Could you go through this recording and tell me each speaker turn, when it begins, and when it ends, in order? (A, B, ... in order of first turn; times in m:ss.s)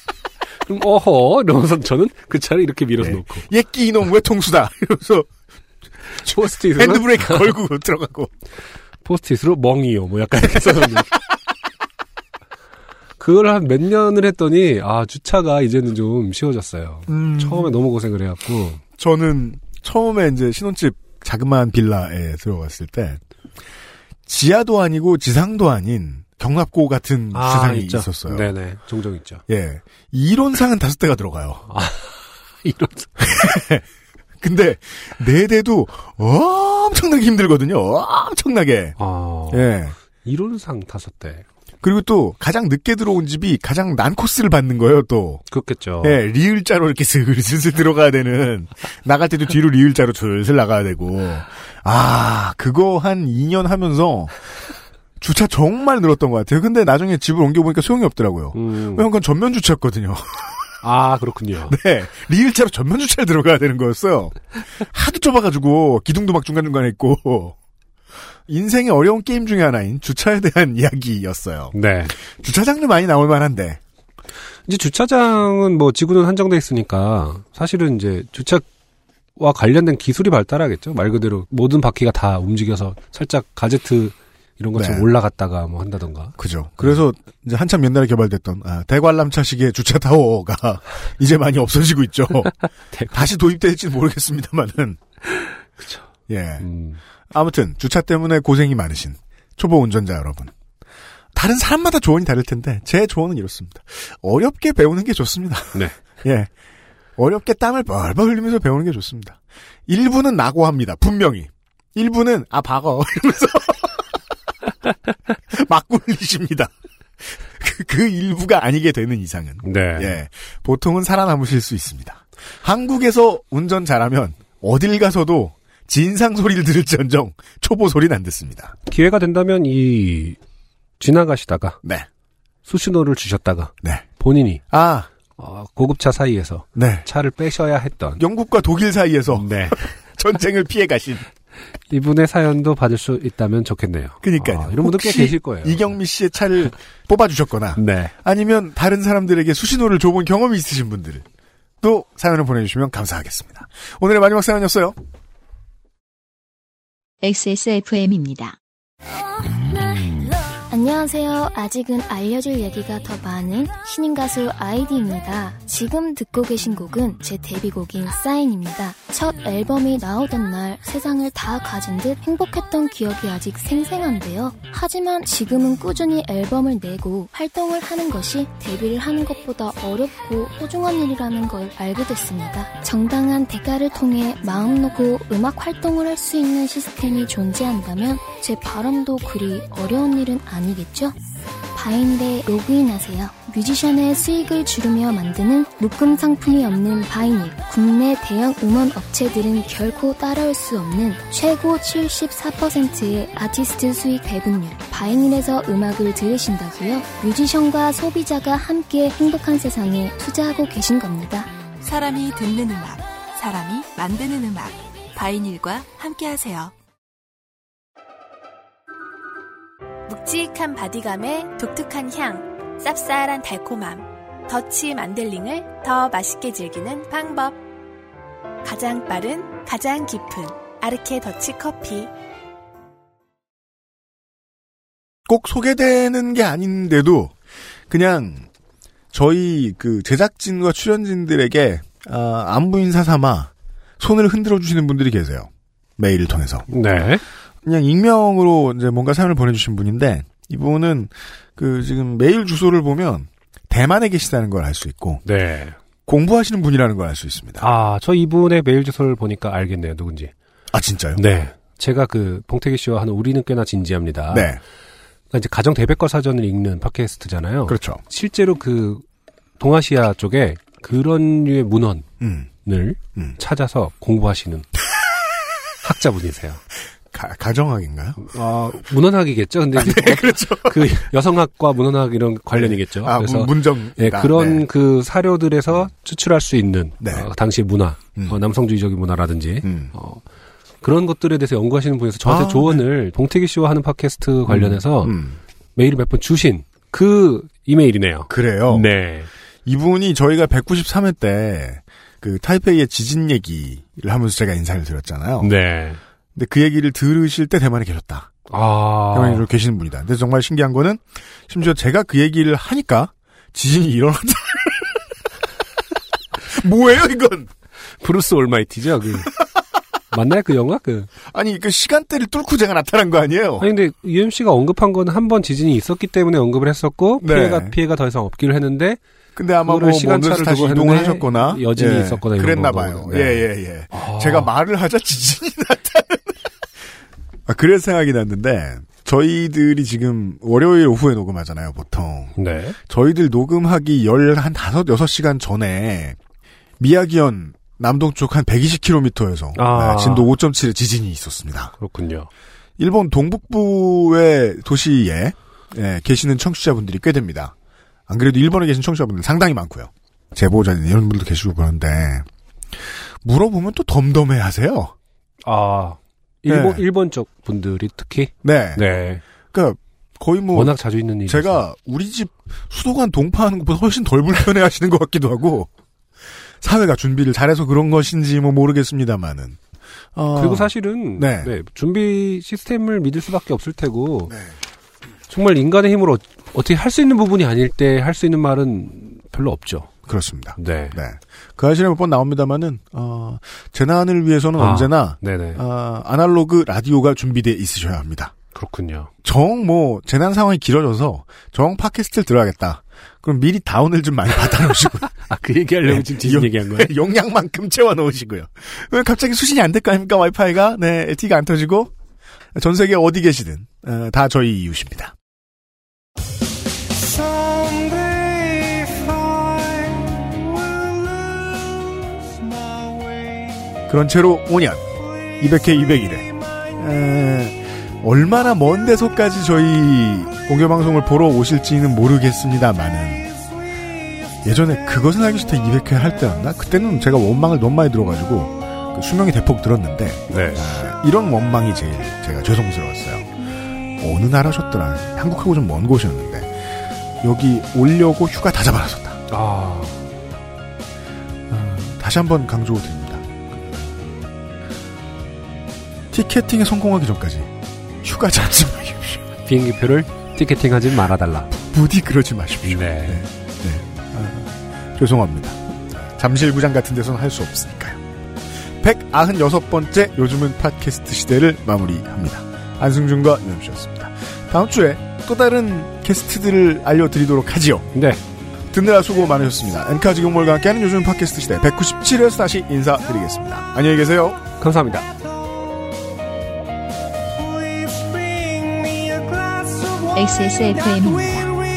0:00.6-0:03.4 A
0:03.0-0:05.3 B
0:06.2-0:07.5 A
0:06.3-0:08.3 B
0:09.0-0:11.1 A
0:10.7-0:11.0 B
0:13.2-0:18.8 A
0:17.1-0:17.7 B
0:19.0-0:23.2 B
0:24.2-0:28.5 B
0:27.3-0:29.4 A
0:29.5-0:31.6 B
0:31.7-0:33.5 A
0:33.2-0:33.8 B
0:34.4-0:39.0 B
0:39.0-0:39.7 A
0:39.5-0:40.0 B
0:40.2-0:41.4 A
0:41.8-0:45.4 B
0:45.5-0:46.2 A
0:46.0-0:54.4 B
0:55.2-1:00.6 B
0:58.5-0:59.0 A
1:00.8-1:01.7 A
1:01.7-1:07.6 B
1:08.5-1:13.8 B
1:11.7-1:12.1 A
1:14.7-1:18.6 A
1:19.4-1:27.0 A
1:24.7-1:25.1 B
1:26.4-1:32.5 B
1:32.9-1:33.3 A
1:33.1-1:35.0 B
1:35.4-1:36.0 A
1:36.3-1:36.6 B
1:36.6-1:37.0 A
1:37.3-1:40.5 B
1:41.3-1:46.5 B
1:47.2-1:54.0 B
1:55.5-2:08.7 B
1:59.6-2:00.1 A
2:08.9-2:10.4 A
2:11.0-2:11.8 A
2:11.8-2:12.1 B
2:12.6-2:14.6 A
2:14.7-2:15.1 B
2:15.4-2:18.2 A
2:16.7-2:17.0 B
2:18.2-2:21.3 B
2:19.3-2:19.8 A
2:21.9-2:25.9 A
2:24.2-2:31.2 B
2:27.8-2:28.1 A
2:31.8-2:35.0 B
2:37.2-2:38.6 C
2:40.7-3:11.1 D
3:11.7-3:31.5 D
3:31.8-3:36.7 E
3:40.1-3:47.6 F
3:48.6-3:52.1 F
3:55.3-3:57.4 B
3:57.9-3:58.5 B
3:59.1-4:06.7 B
4:06.7-4:07.2 A
4:07.6-4:15.2 B
4:15.2-4:15.8 A
4:16.0-4:17.7 B
4:17.6-4:20.3 A
4:20.7-4:21.2 B
4:21.2-4:24.5 A
4:24.3-4:24.6 B
4:25.3-4:29.0 A
4:27.7-4:28.0 B
4:29.6-4:32.1 A
4:32.2-4:32.5 B
4:32.6-4:34.7 A
4:35.8-4:36.6 A
4:37.1-4:38.2 B
4:38.2-4:50.2 A
4:39.7-4:41.1 B
4:42.5-4:44.6 B
4:47.0-4:47.3 B
4:49.6-4:49.9 B
4:50.8-4:55.2 A
4:52.2-4:52.8 B
4:54.5-4:55.4 B
4:55.8-4:59.3 A
4:58.3-4:58.9 B
4:59.6-5:05.5 B
5:05.4-5:06.0 A
5:06.3-5:08.3 B
5:08.5-5:09.4 A
5:09.1-5:15.0 B
5:16.5-5:17.5 B
5:18.0-5:19.3 A
5:20.1-5:21.1 A
5:21.2-5:23.7 B
5:23.6-5:29.0 A
5:27.2-5:27.8 B
5:29.4-5:36.4 B
5:29.6-5:34.5 A
5:37.4-5:46.2 B
5:42.4-5:42.8 A
5:46.8-5:51.7 B
5:49.6-5:50.3 A
5:51.8-5:52.3 A
5:52.8-5:57.5 B
5:58.1-6:02.2 B
6:02.8-6:04.9 B
6:05.4-6:09.2 A
6:06.5-6:06.8 B
6:08.4-6:08.8 B
6:09.5-6:15.7 B
6:10.5-6:11.6 A
6:16.6-6:19.6 B
6:20.1-6:21.5 B
6:20.3-6:24.3 A
6:25.3-6:29.9 A
6:30.0-6:38.3 B
6:30.6-6:31.0 A
6:34.6-6:35.6 A
6:38.5-6:39.1 A
6:39.2-6:45.1 B
6:45.1-6:46.9 A
6:45.8-6:51.9 B
6:52.5-6:55.1 B
7:03.9-7:04.8 B
7:05.4-7:13.3 B
7:14.4-7:23.4 B
7:20.3-7:20.6 A
7:24.0-7:26.6 B
7:27.2-7:29.2 B
7:29.3-7:30.0 A
7:31.5-7:33.9 B
7:36.1-7:39.3 B
7:39.4-7:41.5 A
7:41.5-7:48.0 B
7:42.7-7:43.2 A
7:48.8-7:57.9 B
7:57.9-7:58.2 A
7:58.7-8:04.4 B
8:04.6-8:05.1 A
8:10.1-8:11.6 C